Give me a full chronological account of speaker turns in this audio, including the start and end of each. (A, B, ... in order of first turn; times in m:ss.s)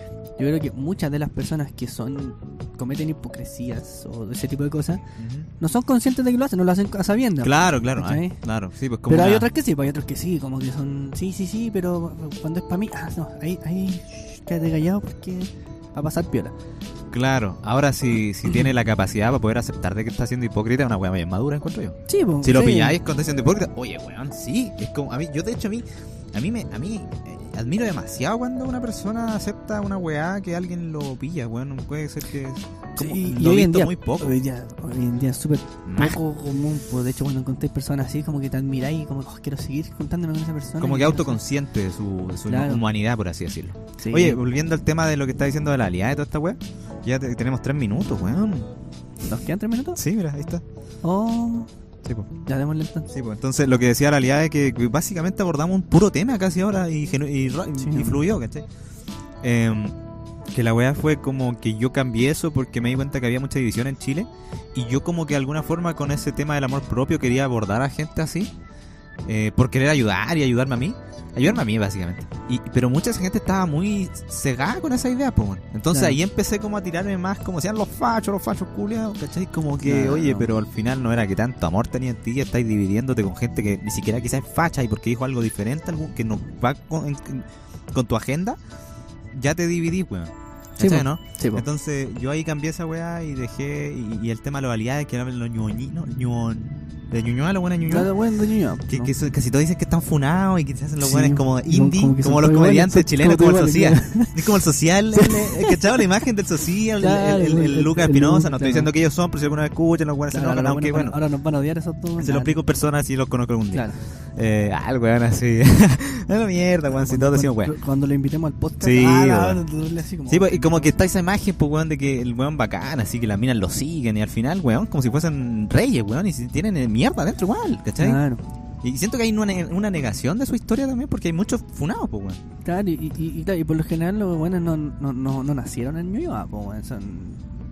0:00.4-0:05.0 A
0:05.2-0:05.5 B
0:05.6-0:08.4 A
0:07.4-0:09.5 B
0:09.1-0:16.5 A
0:17.1-0:34.3 B
0:22.1-0:23.0 A
0:33.0-0:41.4 A
0:35.9-0:36.2 B
0:40.8-0:48.7 B
0:42.5-0:42.8 A
0:44.0-0:44.4 A
0:49.2-0:50.0 A
0:50.0-0:50.6 B
0:51.0-0:51.7 A
0:52.5-0:53.1 A
0:53.1-0:58.7 B
0:57.8-0:58.2 A
0:59.4-1:00.0 B
1:00.5-1:08.5 B
1:09.3-1:28.6 B
1:15.9-1:16.2 A
1:19.8-1:20.5 A
1:29.3-1:38.1 B
1:30.8-1:31.6 A
1:37.9-1:39.1 A
1:38.9-1:51.2 B
1:41.0-1:44.5 A
1:45.1-1:46.0 A
1:47.0-1:48.9 A
1:50.3-1:52.6 A
1:52.2-1:57.7 B
1:53.7-1:54.0 A
1:56.9-2:01.0 A
1:58.8-1:59.6 B
2:00.3-2:08.2 B
2:08.0-2:08.4 A
2:08.8-2:12.4 B
2:12.6-2:17.5 A